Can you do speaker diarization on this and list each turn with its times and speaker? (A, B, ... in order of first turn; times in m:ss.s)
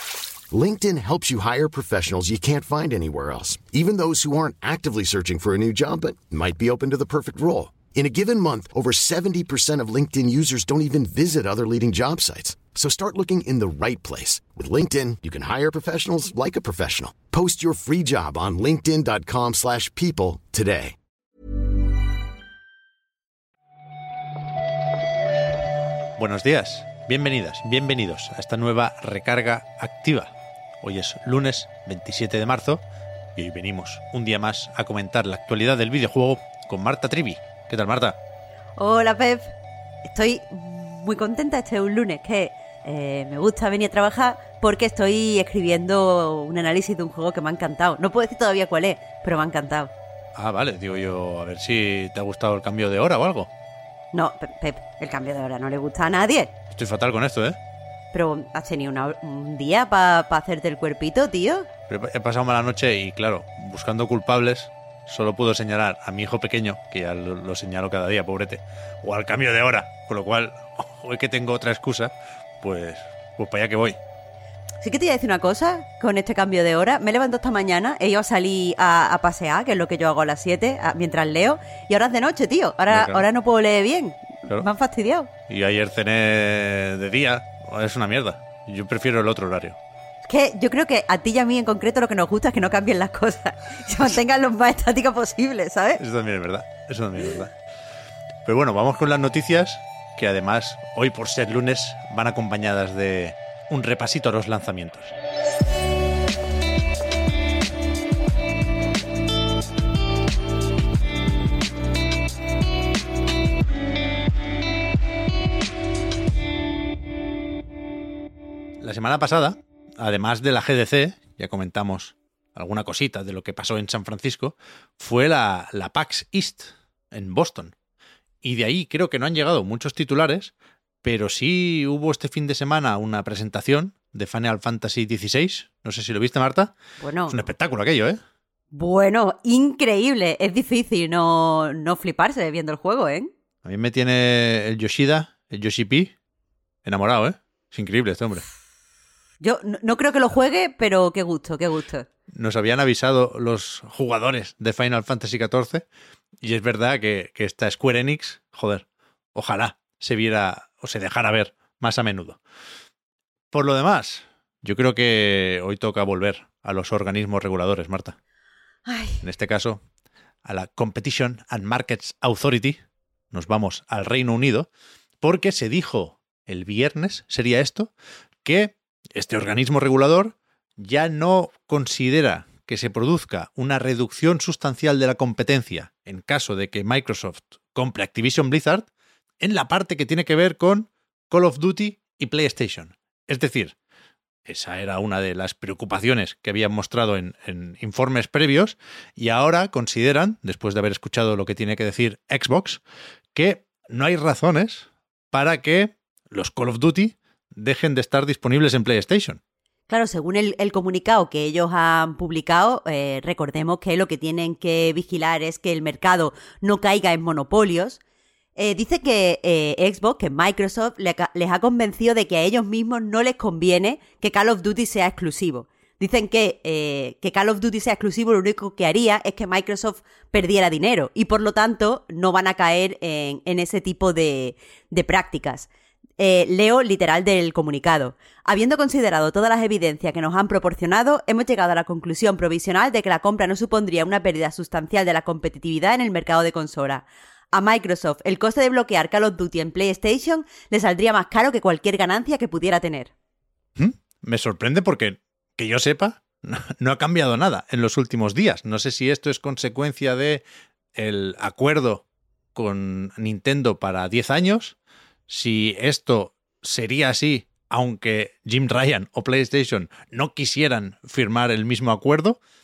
0:00.5-0:21.0 A
0:26.2-0:32.8 B
0:33.4-0:38.2 B
0:38.8-0:39.5 C
0:40.0-0:49.9 C
0:50.4-0:53.5 B
0:54.1-0:56.5 C
0:56.7-0:57.6 B
0:58.1-1:01.7 C
1:01.9-1:14.0 B
1:14.8-1:25.3 C
1:22.9-1:23.2 B
1:25.5-1:29.8 B
1:30.2-1:36.0 C
1:36.0-1:37.5 B
1:38.4-1:45.1 B
1:58.8-2:07.7 B
2:08.4-2:10.5 B
2:11.0-2:16.7 B
2:17.0-2:17.4 C
2:17.3-2:18.2 B
2:18.7-2:23.3 C
2:23.6-2:26.1 B
2:26.8-2:28.5 B
2:29.4-2:32.1 C
2:32.3-2:35.9 B
2:36.4-2:42.4 B
2:43.5-2:48.2 B
2:48.9-2:49.2 C
2:49.2-2:49.8 B
2:50.4-2:52.8 B
2:53.3-2:54.7 B
2:55.2-2:57.9 B
2:58.4-3:08.9 B
3:09.4-3:13.8 B
3:14.5-3:22.8 B
3:23.4-3:29.4 B
3:29.9-3:38.0 C
3:38.6-4:13.1 C
4:13.8-4:20.4 B
4:21.0-4:24.8 B
4:25.3-4:32.4 B